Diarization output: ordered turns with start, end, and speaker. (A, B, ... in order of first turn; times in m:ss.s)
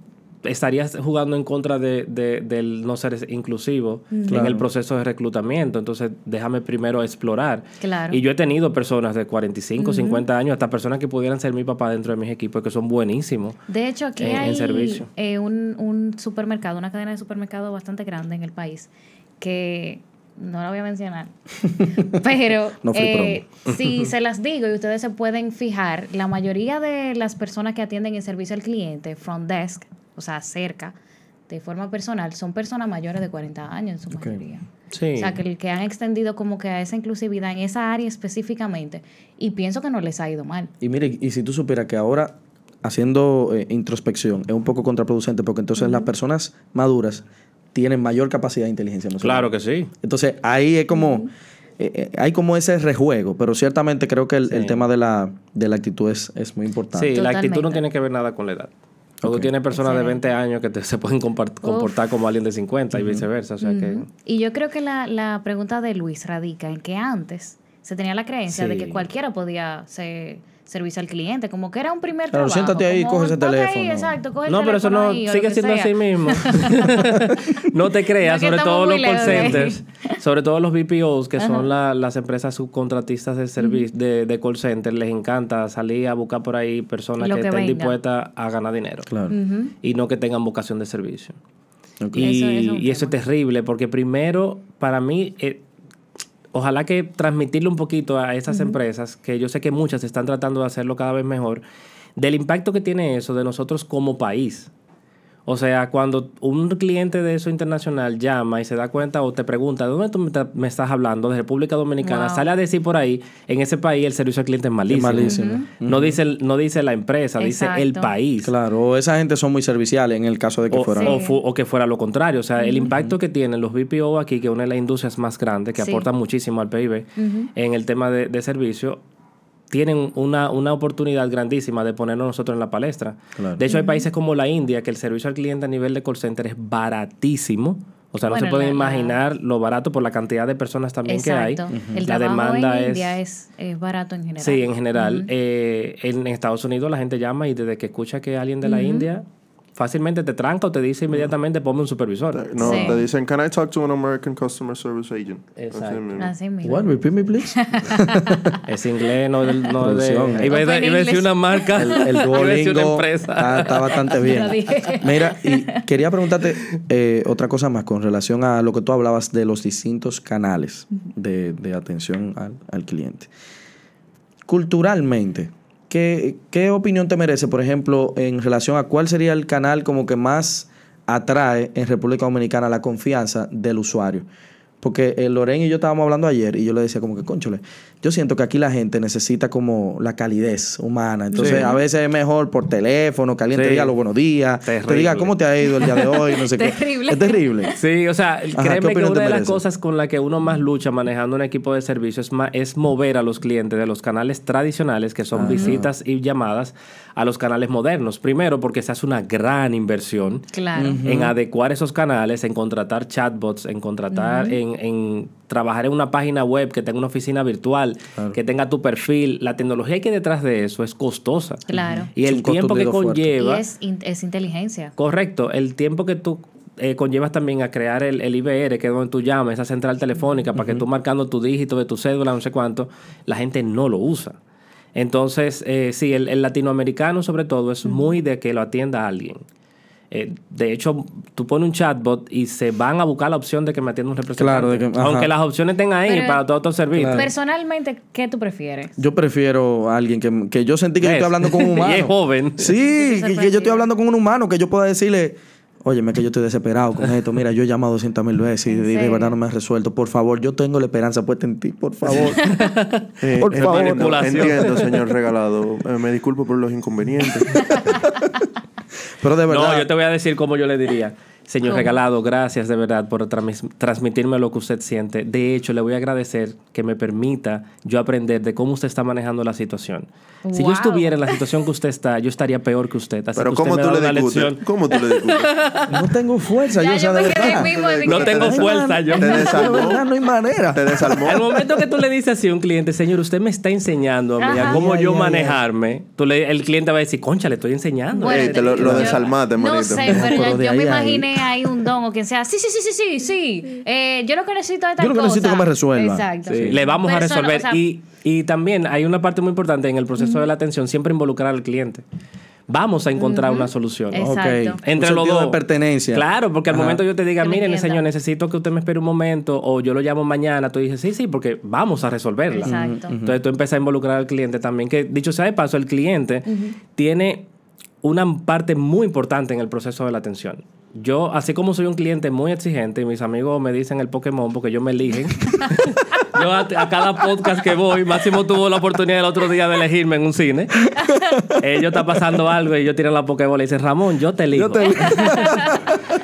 0:00.4-0:13.6 A
0:04.1-0:04.5 B
0:04.3-0:04.7 C
0:07.8-0:08.2 B
0:09.8-0:10.2 B
0:13.7-0:18.9 B
0:14.2-0:15.1 A
0:19.4-0:31.0 B
0:21.7-0:22.1 C
0:22.8-0:23.4 C
0:31.5-0:40.7 B
0:34.1-0:34.4 C
0:34.9-0:35.4 A
0:40.8-0:49.5 C
0:45.8-0:46.1 B
0:49.2-0:49.9 A
0:50.0-0:51.3 C
0:50.9-0:51.3 B
0:51.8-0:57.2 C
0:54.5-0:54.8 A
0:57.0-0:58.7 A
0:57.1-0:57.8 B
0:59.2-0:59.5 C
0:59.2-1:04.1 A
0:59.7-1:00.3 B
1:01.6-1:02.0 B
1:02.9-1:03.3 C
1:03.6-1:17.5 B
1:08.6-1:09.0 A
1:12.3-1:14.2 C
1:14.5-1:29.1 A
1:18.2-1:20.2 B
1:19.2-1:19.7 C
1:21.4-1:21.7 B
1:23.6-1:23.9 B
1:27.2-1:28.0 B
1:29.1-1:29.3 C
1:29.3-1:29.7 B
1:29.8-1:31.4 A
1:32.0-1:32.3 C
1:32.1-1:33.2 B
1:32.2-1:35.6 A
1:36.5-1:41.6 A
1:38.5-1:38.8 B
1:42.2-1:44.7 A
1:45.5-1:58.5 A
1:52.0-1:52.5 B
1:54.9-1:56.2 C
1:55.3-1:55.7 B
1:57.4-1:58.1 B
1:58.4-2:01.2 C
2:00.7-2:09.0 A
2:01.0-2:01.4 B
2:02.6-2:02.9 B
2:02.9-2:03.1 C
2:05.8-2:06.1 B
2:07.2-2:07.5 B
2:09.7-2:23.2 A
2:13.7-2:14.1 B
2:18.3-2:19.2 B
2:21.1-2:25.3 B
2:21.7-2:22.0 C
2:24.4-2:29.2 A
2:28.6-2:29.1 B
2:29.8-2:33.0 A
2:32.3-2:36.3 D
2:32.6-2:33.0 C
2:32.6-2:33.0 B
2:35.6-2:36.2 A
2:36.2-2:38.6 B
2:36.6-2:38.6 C
2:38.6-2:44.2 A
2:39.8-2:40.5 C
2:40.4-2:42.3 B
2:41.8-2:53.3 C
2:44.1-2:45.8 B
2:54.5-3:04.3 C
3:04.8-3:17.7 C
3:11.3-3:11.8 B
3:11.4-3:11.7 A
3:13.5-3:13.9 A
3:14.6-3:15.4 A
3:15.6-3:17.8 B
3:17.8-3:30.5 A
3:18.6-3:19.6 C
3:25.3-3:25.9 C
3:25.5-3:25.8 B
3:30.5-3:31.0 B
3:30.8-3:31.4 C
3:31.0-3:43.6 A
3:34.1-3:34.6 B
3:41.7-3:42.1 B
3:41.7-3:43.3 C
3:43.4-3:44.9 B
3:45.0-3:54.4 A
3:50.6-3:50.8 C
3:55.0-3:59.4 A
3:57.8-3:58.1 B
4:00.1-4:07.3 A
4:04.4-4:05.3 C
4:06.1-4:06.4 B
4:06.9-4:07.3 C
4:07.1-4:09.0 B
4:09.0-4:22.4 C
4:11.0-4:12.7 A
4:12.8-4:13.9 B
4:18.7-4:19.4 B
4:22.4-4:24.9 A
4:23.2-4:28.2 D
4:23.4-4:24.7 C
4:29.2-4:29.9 C
4:29.5-4:46.1 A
4:31.6-4:32.0 B
4:40.4-4:41.4 B
4:43.4-4:45.6 D
4:45.9-4:51.2 C
4:46.8-4:48.5 B
4:47.2-4:50.0 D
4:48.1-4:49.9 A
4:50.7-4:51.6 D
4:51.2-4:59.2 A
4:54.4-4:54.8 B
4:54.5-4:55.6 C
4:58.2-5:07.8 B
4:58.2-5:00.5 D
4:58.8-4:59.2 C
5:00.0-5:01.5 C
5:05.0-5:06.8 C
5:06.5-5:12.0 A
5:10.2-5:10.4 B
5:12.7-5:14.3 A
5:13.2-5:14.8 B
5:14.2-5:17.0 C
5:14.8-5:15.6 A
5:16.1-5:27.4 A
5:17.4-5:18.0 B
5:22.5-5:23.1 B
5:22.6-5:23.4 C
5:26.5-5:26.8 B
5:28.0-5:40.9 A
5:40.9-5:41.6 C
5:41.0-5:41.4 B
5:41.4-5:45.5 A
5:44.5-5:45.8 C
5:45.2-5:45.9 B